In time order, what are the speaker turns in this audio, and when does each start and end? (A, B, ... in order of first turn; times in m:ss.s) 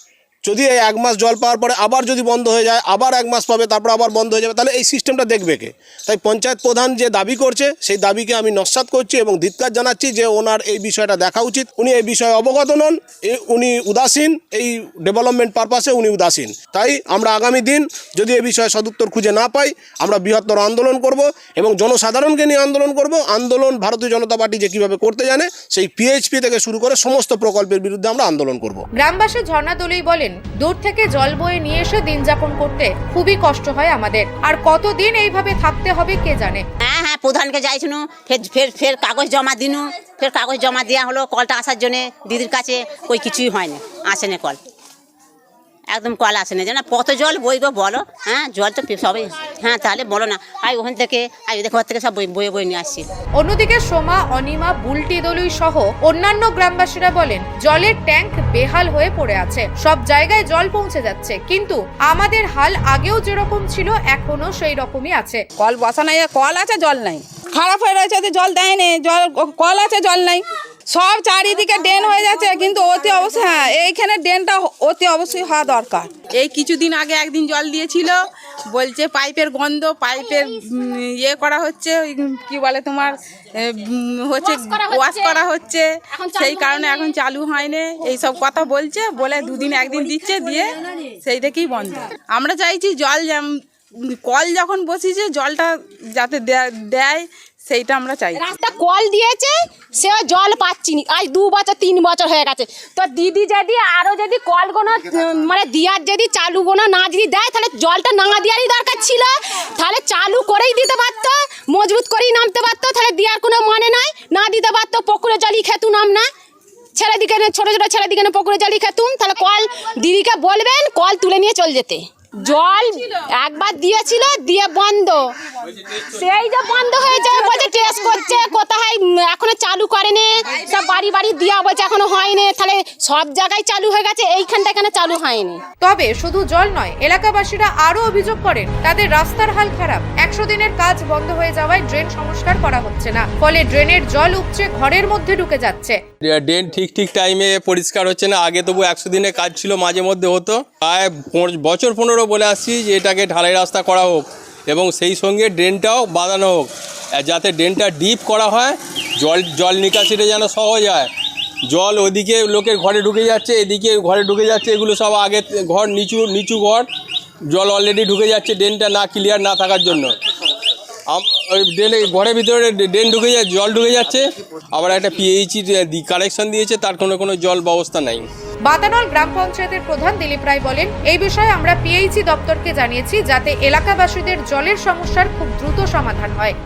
0:00.4-0:28.8 A
0:29.0-0:36.6 B
0:36.8-0:44.6 C
0:45.9-0:53.1 C
0:53.4-1:05.4 B
1:05.6-1:38.4 D
1:24.4-1:25.5 E
1:26.1-1:27.1 E
1:38.4-1:56.3 E
1:57.0-2:05.4 E
2:06.0-2:15.6 E
2:07.5-2:07.8 D
2:15.8-2:26.0 B
2:26.2-2:41.1 F
2:41.7-2:46.9 F
2:47.5-2:50.1 F
2:51.1-2:58.2 F
2:58.7-3:06.6 B